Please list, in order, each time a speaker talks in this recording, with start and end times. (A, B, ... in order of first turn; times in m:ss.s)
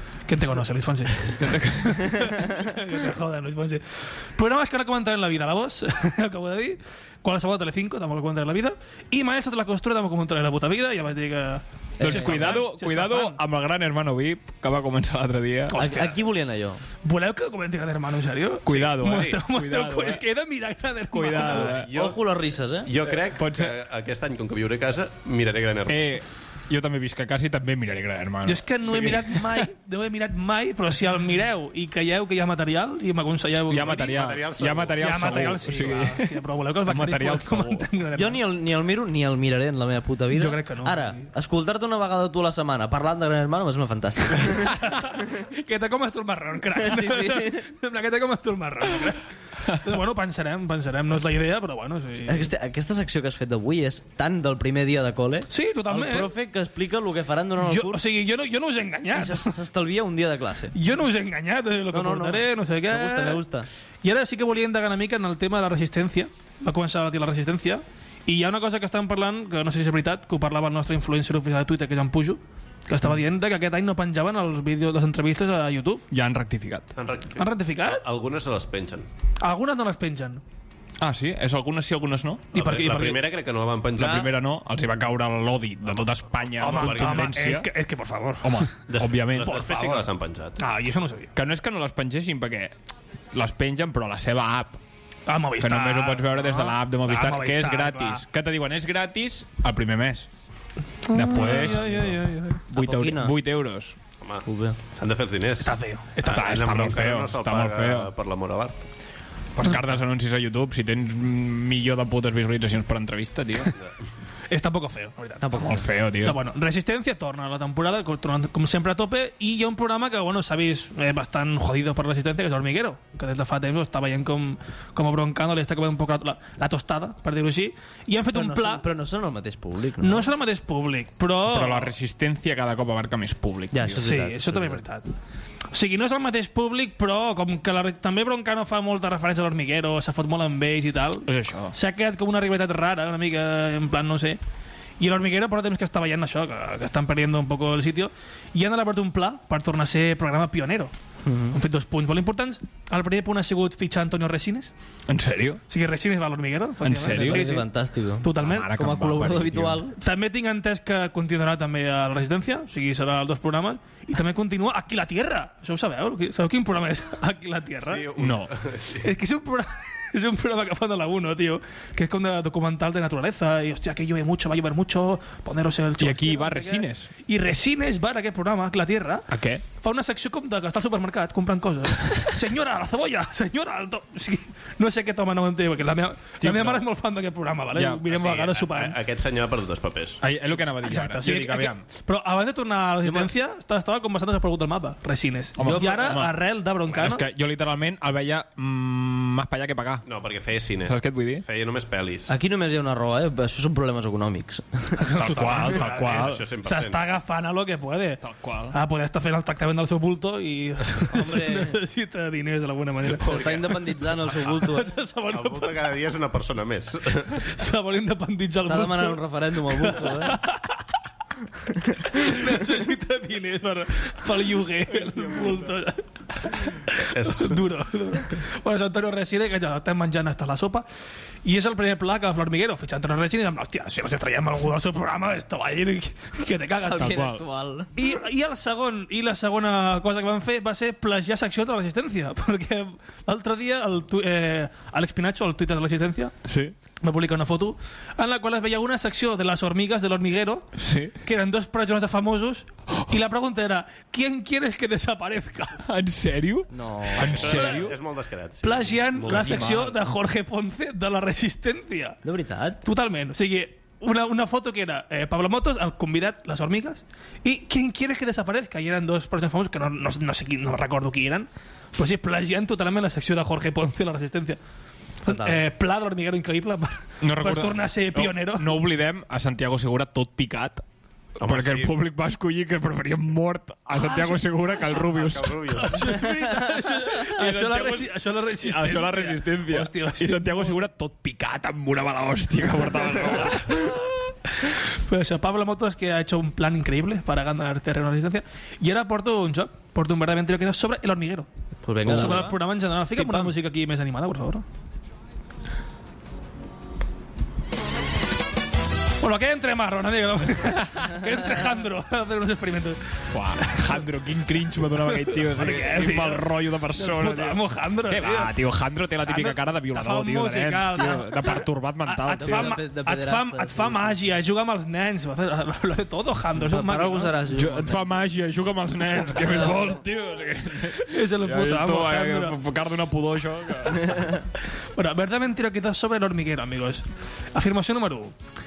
0:00.3-0:13.4 A
0:01.4-0:02.3 B
0:12.0-0:15.8 B
0:12.0-0:12.6 C
0:15.7-0:16.2 A
0:15.7-0:16.8 C
0:17.0-0:21.7 A
0:18.7-0:20.2 B
0:18.7-0:19.4 D
0:21.1-0:21.9 B
0:21.4-0:22.2 D
0:21.8-0:22.9 C
0:22.8-0:26.1 D
0:23.4-0:23.7 B
0:25.9-0:29.7 B
0:28.4-0:34.2 A
0:33.7-0:37.9 B
0:33.9-0:35.0 D
0:35.0-0:38.4 A
0:38.2-0:44.7 C
0:40.3-0:41.2 A
0:44.5-0:49.2 A
0:46.8-0:47.6 C
0:49.8-0:52.5 A
0:52.3-0:58.0 C
0:55.5-0:56.3 A
0:57.6-0:59.6 A
0:59.1-1:00.8 C
1:00.8-1:03.4 A
1:01.9-1:03.7 C
1:04.0-1:16.1 A
1:16.1-1:16.9 B
1:17.0-1:19.1 D
1:17.4-1:18.0 A
1:19.4-1:20.4 A
1:21.0-1:22.5 B
1:22.5-1:23.2 A
1:22.5-1:24.3 D
1:24.0-1:27.7 B
1:25.8-1:27.4 D
1:26.6-1:28.7 A
1:28.4-1:30.0 B
1:28.9-1:30.6 D
1:30.6-1:31.3 A
1:31.4-1:32.7 B
1:33.3-1:34.8 B
1:35.3-1:38.2 A
1:35.6-1:40.3 B
1:41.1-1:42.2 B
1:41.3-1:42.6 A
1:41.4-1:42.1 C
1:42.7-1:43.4 C
1:42.7-1:44.0 B
1:44.2-1:48.8 D
1:44.5-1:44.8 C
1:45.6-1:46.5 A
1:46.3-1:48.1 B
1:49.6-1:53.8 B
1:54.5-2:08.9 A
1:55.4-1:55.8 C
1:55.6-1:56.4 B
2:08.3-2:10.3 C
2:10.0-2:11.9 A
2:11.4-2:14.1 B
2:13.7-2:14.8 C
2:14.0-2:15.1 A
2:15.7-2:24.4 A
2:21.3-2:21.7 B
2:25.0-2:30.9 A
2:31.2-2:31.6 C
2:31.5-2:34.7 A
2:35.1-2:35.6 B
2:35.7-2:37.7 A
2:36.8-2:37.5 B
2:37.2-2:40.0 C
2:38.2-2:38.7 A
2:38.4-2:39.8 B
2:39.9-2:48.1 A
2:47.8-2:49.1 D
2:48.2-2:48.5 B
2:49.0-3:09.0 A
2:56.0-2:57.1 B
2:59.3-2:59.6 B
3:06.4-3:06.8 B
3:07.7-3:08.5 B
3:08.3-3:10.2 D
3:10.2-3:11.9 B
3:10.8-3:17.2 A
3:15.6-3:16.4 B
3:15.6-3:16.2 C
3:16.9-3:20.0 B
3:20.0-3:22.3 D
3:20.9-3:21.4 B
3:22.3-3:25.0 C
3:25.0-3:35.8 A
3:25.2-3:26.5 B
3:25.8-3:27.0 D
3:28.2-3:28.8 B
3:31.1-3:31.8 C
3:33.2-3:34.9 C
3:35.3-3:37.5 D
3:37.5-3:40.8 A
3:38.7-3:40.4 C
3:42.0-3:50.9 A
3:45.2-3:45.5 B
3:47.1-3:47.6 D
3:51.4-3:57.2 A
3:56.8-3:57.9 C
3:57.0-3:57.4 B
3:58.0-4:06.4 A
4:06.4-4:06.8 B
4:07.0-4:15.8 A
4:10.8-4:11.2 B
4:15.9-4:18.0 B
4:16.7-4:17.5 C
4:17.3-4:19.8 D
4:17.5-4:17.8 A
4:18.6-4:22.2 A
4:19.3-4:20.0 B
4:22.2-4:22.8 C
4:22.8-4:34.6 A
4:35.2-4:38.9 A
4:35.3-4:35.6 C
4:37.2-4:40.8 B
4:41.4-4:41.9 D
4:41.4-4:45.6 B
4:43.9-4:45.0 A
4:44.9-4:46.2 D
4:45.8-4:50.8 A
4:47.3-4:53.9 B
4:53.0-5:01.5 A
5:01.8-5:02.6 C
5:02.0-5:04.6 A
5:02.1-5:02.4 B
5:03.2-5:03.5 B
5:09.2-5:13.1 A
5:13.3-5:22.8 B
5:13.6-5:14.0 A
5:15.3-5:18.6 A
5:19.2-5:27.4 A
5:22.3-5:24.2 C
5:26.6-5:28.1 C
5:27.5-5:34.4 B
5:29.4-5:30.0 C
5:31.0-5:32.6 A
5:35.0-5:38.4 A